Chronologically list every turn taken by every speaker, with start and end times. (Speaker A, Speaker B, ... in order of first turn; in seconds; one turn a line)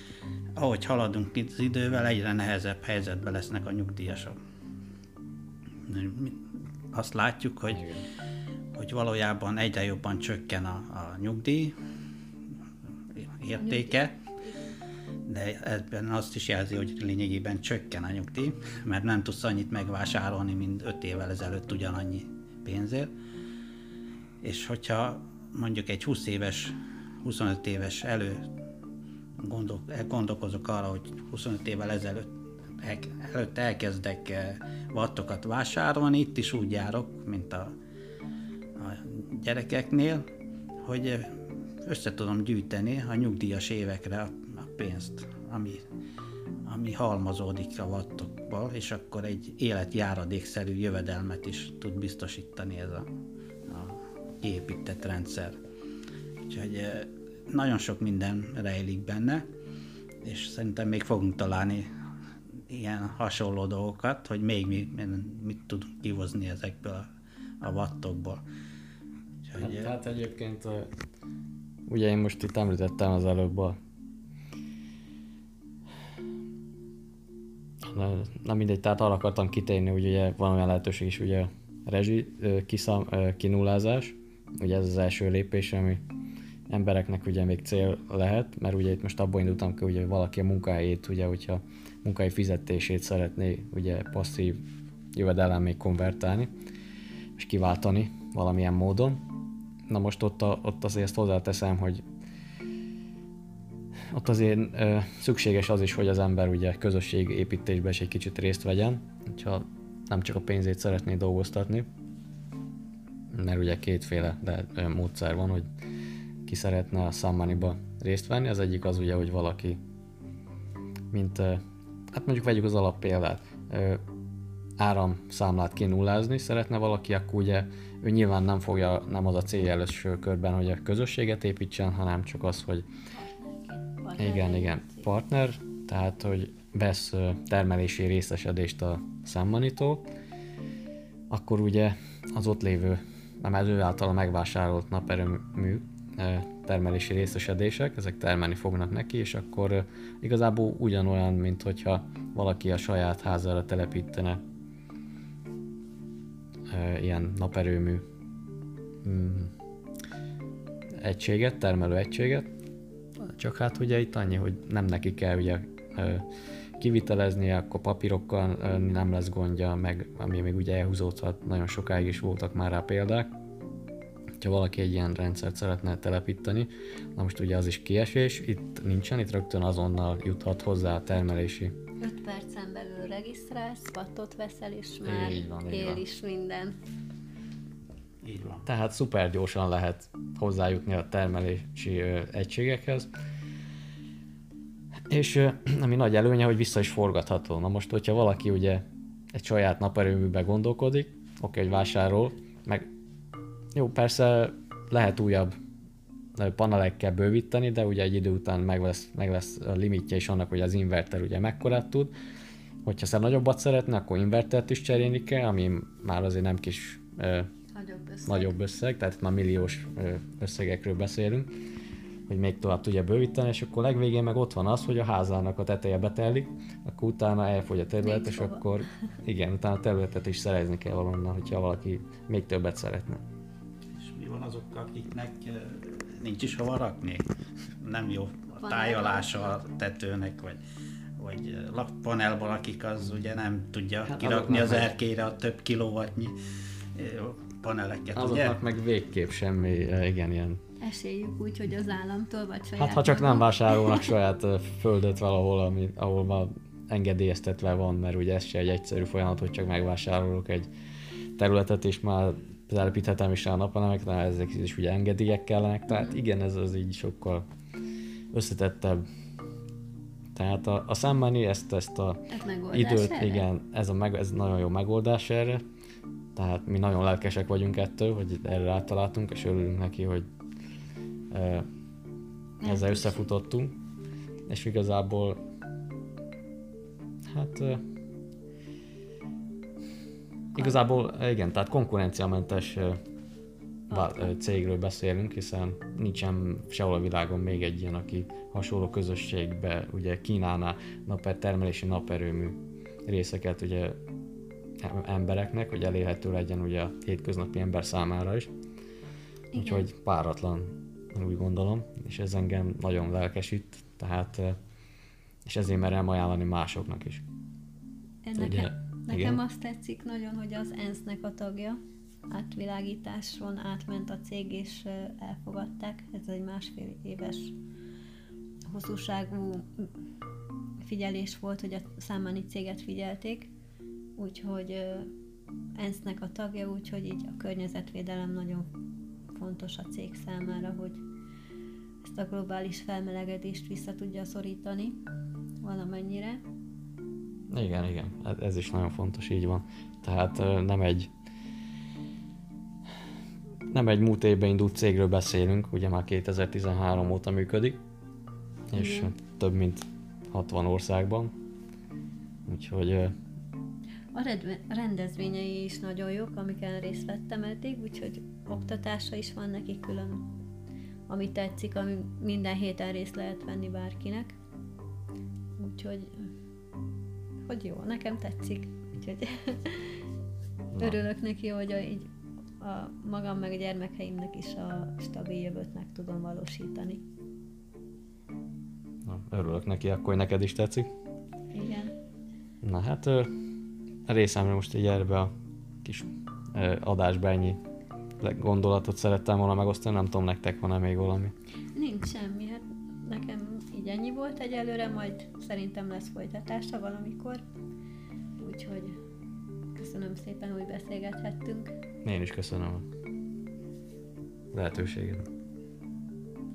Speaker A: 0.6-4.4
Speaker A: 5.9-7.9
Speaker B: 7.7-8.0
Speaker A: 8.7-11.8
Speaker A: 13.1-14.1
Speaker C: 13.6-14.8
Speaker A: 15.3-23.1
Speaker A: 24.4-28.5
Speaker A: 29.4-37.7
Speaker A: 38.8-40.3
Speaker A: 40.8-45.8
Speaker A: 46.6-53.1
Speaker A: 53.7-55.6
Speaker A: 56.5-59.5
Speaker A: 60.2-61.9
Speaker A: 62.7-67.1
Speaker A: 67.6-68.4
Speaker A: 69.4-69.9
Speaker B: 69.6-70.9
Speaker B: 71.9-73.8
Speaker B: 77.9-86.0
Speaker B: 86.7-94.6
Speaker B: 95.1-96.5
Speaker B: 97.4-99.2
Speaker B: 99.9-102.0
Speaker B: 104.1-111.9
Speaker B: 113.3-115.7
Speaker B: 116.4-119.8
Speaker B: 121.1-124.0
Speaker B: 124.8-132.9
Speaker C: 133.1-135.1
Speaker B: 134.2-140.1
Speaker B: 141.3-154.4
Speaker B: 156.7-158.1
Speaker B: 159.0-159.5
Speaker B: 161.0-162.5
Speaker B: 163.2-166.3
Speaker B: 166.8-173.3
Speaker B: 174.4-181.8
Speaker C: 182.0-186.8
Speaker B: 185.0-186.0
Speaker A: 188.2-188.6
Speaker B: 188.6-193.1
Speaker B: 195.1-202.9
Speaker B: 203.7-205.5
Speaker B: 206.4-212.1
Speaker B: 212.8-217.5
Speaker C: 217.7-218.5
Speaker B: 218.3-221.5
Speaker B: 222.3-233.2
Speaker C: 228.0-228.7
Speaker A: 234.0-237.3
Speaker A: 237.8-240.6
Speaker C: 238.6-239.6
Speaker A: 241.2-246.3
Speaker B: 244.1-244.9
Speaker A: 246.9-248.6
Speaker B: 248.1-250.6
Speaker C: 250.8-254.1
Speaker B: 252.8-260.7
Speaker B: 261.4-267.4
Speaker B: 268.3-269.0
Speaker B: 270.4-275.6
Speaker C: 272.3-273.4
Speaker B: 276.4-280.3
Speaker B: 281.3-281.7
Speaker C: 282.6-283.3
Speaker B: 282.6-283.8
Speaker B: 284.5-285.4
Speaker B: 287.3-287.8
Speaker B: 290.6-293.0
Speaker C: 293.9-294.3
Speaker B: 293.9-304.0
Speaker B: 304.8-308.5
Speaker C: 309.5-309.9
Speaker B: 309.6-314.6
Speaker B: 315.4-317.2
Speaker C: 318.2-327.6
Speaker B: 318.4-319.4
Speaker C: 328.7-329.9
Speaker C: 330.8-333.5
Speaker C: 334.2-335.1
Speaker C: 335.8-338.7
Speaker C: 339.3-341.0
Speaker C: 342.0-345.0
Speaker C: 345.6-346.4
Speaker B: 347.5-351.1
Speaker B: 353.7-357.8
Speaker B: 358.7-361.3
Speaker C: 358.8-359.1
Speaker B: 362.4-363.1
Speaker C: 364.1-370.3
Speaker C: 371.1-374.3
Speaker C: 375.6-376.3
Speaker C: 377.4-380.0
Speaker B: 380.7-381.0
Speaker C: 380.8-382.1
Speaker C: 382.6-387.0
Speaker B: 389.1-390.9
Speaker C: 391.5-391.9
Speaker B: 392.6-393.3
Speaker B: 394.1-395.3
Speaker B: 395.8-397.6
Speaker B: 398.2-401.3
Speaker C: 401.8-407.4
Speaker C: 408.4-409.0
Speaker C: 409.8-411.7
Speaker B: 412.0-412.9
Speaker B: 414.5-415.3